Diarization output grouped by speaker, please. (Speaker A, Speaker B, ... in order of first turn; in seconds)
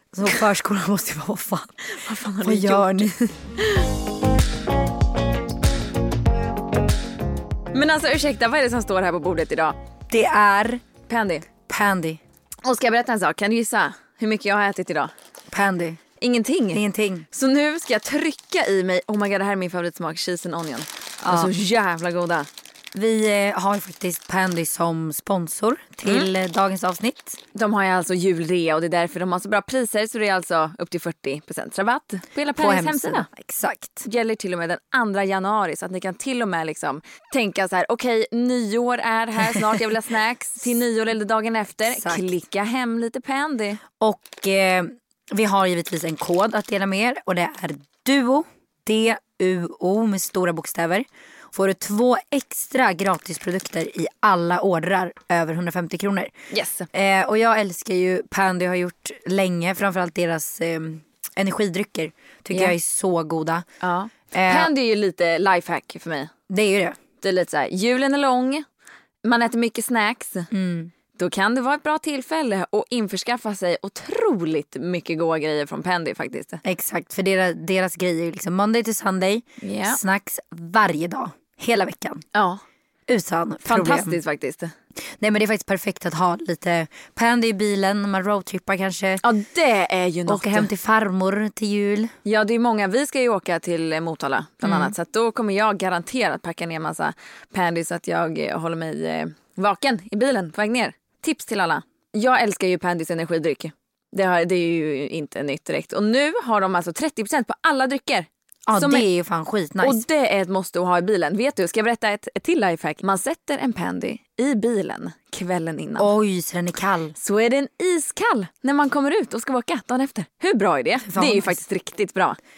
Speaker A: 0.1-1.8, 2.4-3.4, 10.1-10.8, 11.7-12.2, 15.5-16.0, 16.7-17.2, 21.2-21.5, 22.9-27.4, 32.5-34.0, 41.9-42.3, 44.0-56.3, 56.9-63.6, 64.3-64.7, 66.5-67.0, 70.5-70.9, 76.6-82.2, 83.1-84.2, 85.2-89.2, 90.2-92.1, 94.6-94.9, 108.7-110.0, 116.0-117.1, 121.0-121.6
Speaker B: 1.8-3.9, 7.7-9.8, 11.1-11.5, 12.6-15.1, 16.2-22.5, 27.5-33.3, 34.0-43.8, 56.5-56.9, 63.8-66.3, 67.2-68.6, 69.2-70.5, 71.2-76.6, 79.6-80.0, 82.3-82.6, 83.7-84.7, 89.2-90.7, 92.2-109.0, 109.8-116.1, 117.1-122.4